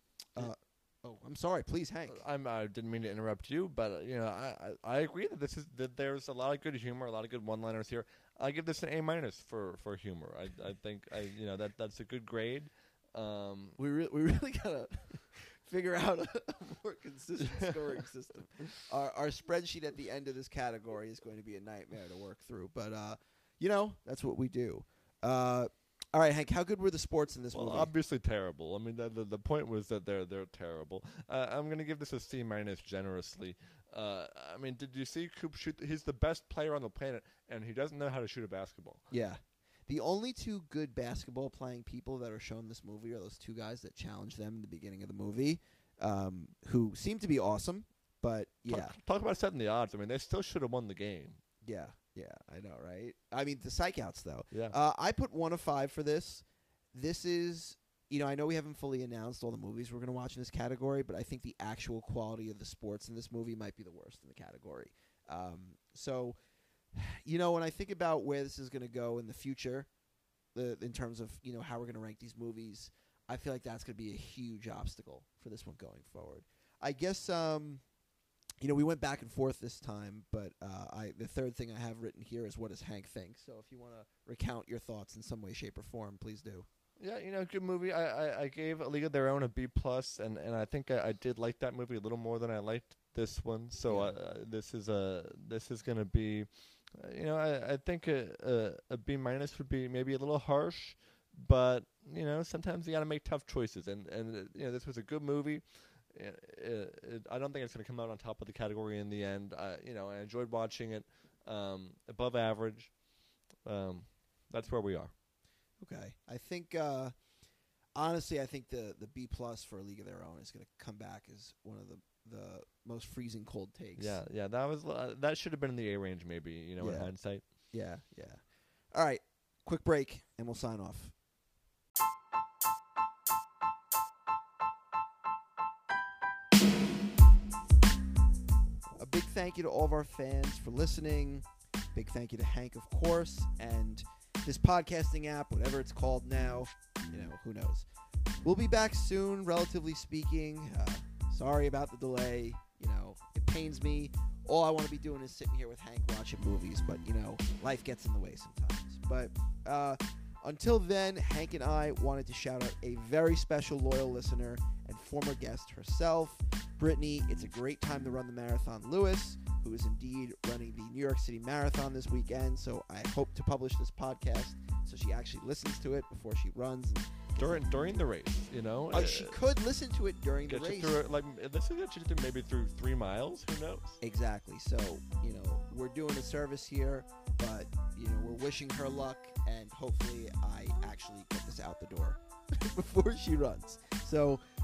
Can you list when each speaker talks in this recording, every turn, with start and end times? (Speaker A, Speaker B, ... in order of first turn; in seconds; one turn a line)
Speaker A: 0.3-2.2
Speaker B: 2.1-13.8
Speaker A: 13.8-27.9
Speaker B: 27.5-39.1
Speaker A: 39.1-49.0
Speaker B: 48.7-51.4
Speaker A: 51.6-66.3
Speaker B: 54.5-54.8
Speaker A: 66.9-69.9
Speaker A: 70.5-77.8
Speaker A: 78.6-86.7
Speaker B: 87.0-112.9
Speaker A: 93.9-94.2
Speaker B: 113.7-115.1
Speaker A: 115.8-117.1
Speaker A: 118.0-124.2
Speaker B: 124.0-127.4
Speaker A: 126.8-131.1
Speaker A: 139.0-147.9
Speaker A: 148.4-177.7
Speaker B: 177.4-179.4
Speaker A: 178.9-181.0
Speaker B: 180.5-184.0
Speaker A: 184.0-194.4